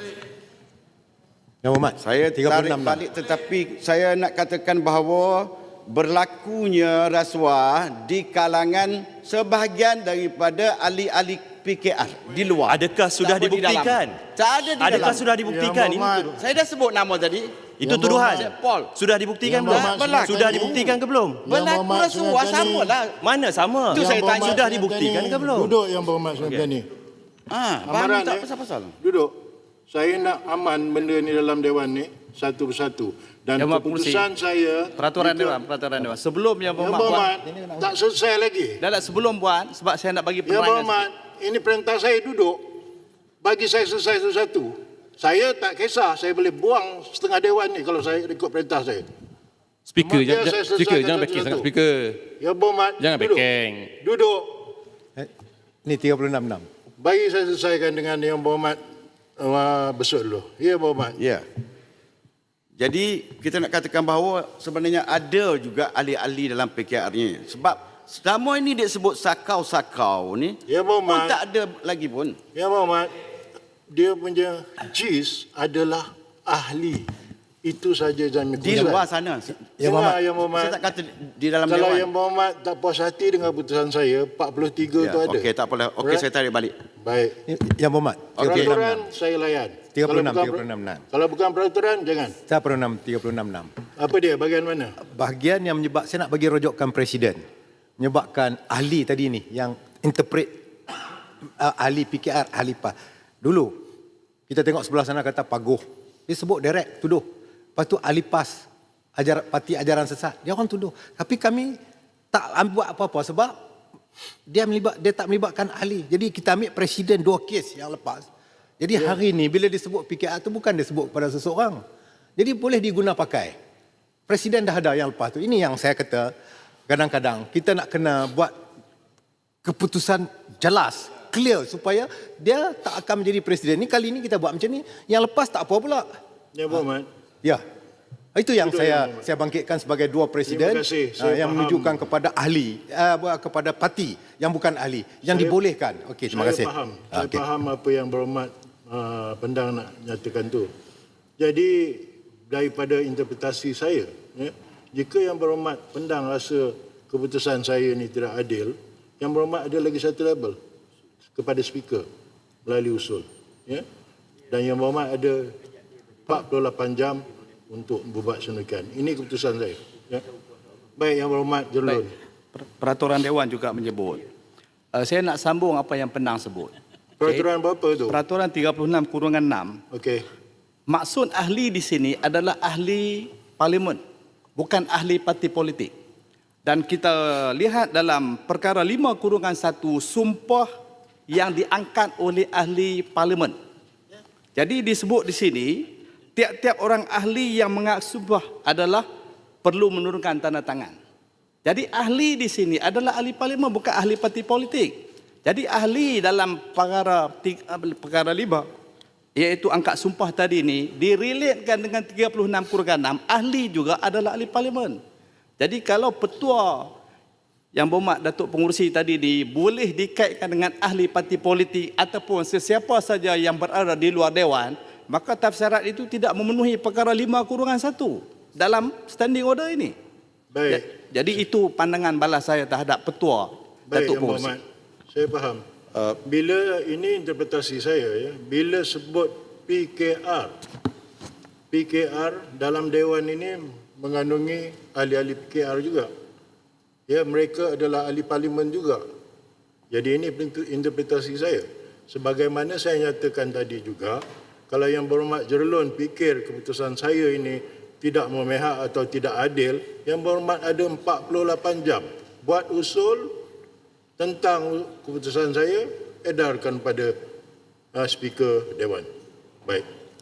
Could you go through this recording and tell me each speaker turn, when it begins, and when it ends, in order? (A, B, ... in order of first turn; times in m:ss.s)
0:01.6-0:03.0 A
0:02.0-0:15.3 B
0:12.7-0:14.2 C
0:14.8-0:16.3 C
0:14.9-0:16.4 D
0:16.4-0:18.9 B
0:17.8-0:21.4 C
0:17.8-0:18.5 D
0:19.5-0:20.9 D
0:19.6-0:21.0 B
0:21.4-0:22.9 D
0:21.5-0:23.2 B
0:23.2-0:25.7 C
0:23.9-0:24.8 B
0:23.9-0:26.9 D
0:26.4-0:26.7 C
0:27.5-0:29.0 B
0:27.8-0:28.5 D
0:29.0-0:29.4 D
0:29.9-0:35.6 D
0:33.6-0:34.3 E
0:35.0-0:37.3 E
0:36.8-0:38.8 D
0:37.0-0:37.9 A
0:38.8-0:41.1 E
0:40.5-0:42.7 D
0:43.4-0:49.1 D
0:49.9-0:52.3 F
0:50.0-0:51.7 D
0:52.4-0:53.4 D
0:53.0-0:53.9 F
0:54.0-0:54.7 D
0:55.8-0:56.7 A
0:57.0-0:58.8 D
0:59.4-1:01.2 D
1:01.2-1:01.4 B
1:02.8-1:12.4 B
1:10.7-1:11.4 D
1:12.6-1:13.1 D
1:13.9-1:17.1 D
1:17.6-1:19.0 D
1:18.6-1:22.1 B
1:19.8-1:20.9 D
1:19.8-1:20.2 A
1:21.7-1:25.5 D
1:25.0-1:26.8 B
1:27.0-1:27.4 D
1:27.5-1:29.1 A
1:28.4-1:28.8 B
1:28.4-1:32.4 D
1:29.9-1:31.0 A
1:32.5-1:33.7 A
1:34.0-1:35.0 D
1:35.0-1:37.4 A
1:38.0-1:40.6 A
1:41.6-1:43.8 A
1:44.5-1:51.8 A
1:52.3-1:53.6 A
1:54.5-1:58.3 A
1:58.8-2:01.8 A
2:02.4-2:03.6 A
2:04.3-2:06.3 A
2:06.9-2:08.5 A
2:09.6-2:16.1 A
2:16.5-2:17.1 D
2:18.4-2:27.4 A
2:18.6-2:19.3 D
2:20.5-2:22.0 D
2:25.3-2:25.6 D
2:26.3-2:30.7 D
2:31.4-2:40.6 D
2:41.4-2:42.1 D
2:42.6-2:43.8 D
2:44.5-2:45.5 D
2:46.3-2:50.2 D
2:51.0-2:52.1 D
2:52.6-2:54.2 E
2:54.9-2:57.5 E
2:57.2-2:58.2 D
2:58.1-2:59.8 E
2:59.9-3:00.2 D
3:00.9-3:04.0 E
3:04.6-3:05.9 E
3:06.6-3:10.7 E
3:11.3-3:13.6 E
3:14.6-3:19.1 E
3:19.6-3:21.0 E
3:21.6-3:28.7 E
3:29.4-3:35.0 E
3:35.6-3:36.9 E
3:37.7-3:50.0 E
3:50.5-3:50.8 D
3:50.7-3:54.6 E
3:53.9-3:55.6 D
3:56.2-4:00.6 D
4:01.7-4:06.1 D
4:07.1-4:09.0 D
4:09.9-4:23.4 D
4:24.2-4:27.2 D
4:27.9-4:29.1 D